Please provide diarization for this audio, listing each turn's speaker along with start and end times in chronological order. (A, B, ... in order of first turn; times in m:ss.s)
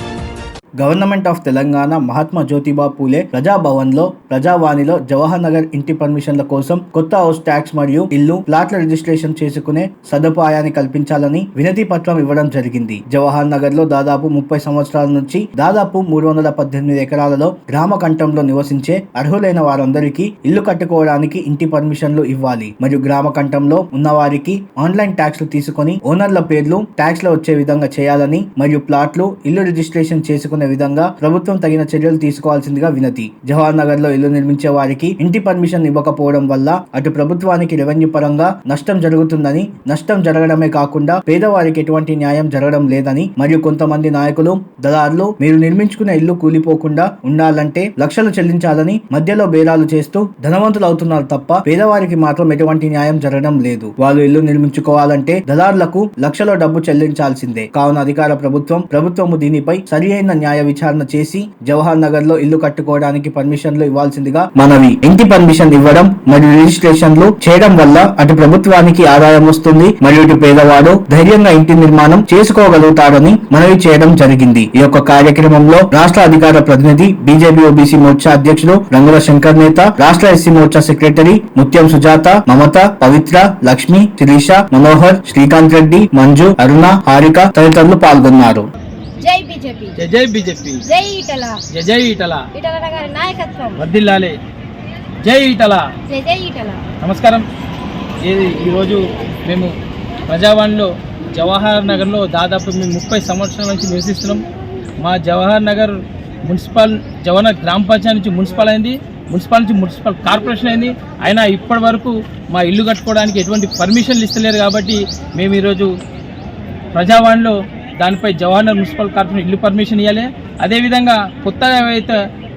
0:00.8-1:28.7 A
1:29.2-1:30.0 B
1:30.0-1:30.8 C
1:30.8-1:31.6 B
1:31.7-1:32.5 C
1:32.5-1:33.8 B
1:33.8-1:34.4 C
1:35.2-1:35.9 C
1:36.1-1:36.8 B
1:37.0-1:37.4 C
1:38.2-1:39.7 C
1:40.3-1:44.4 C
1:45.0-1:55.9 C
1:56.9-2:02.2 C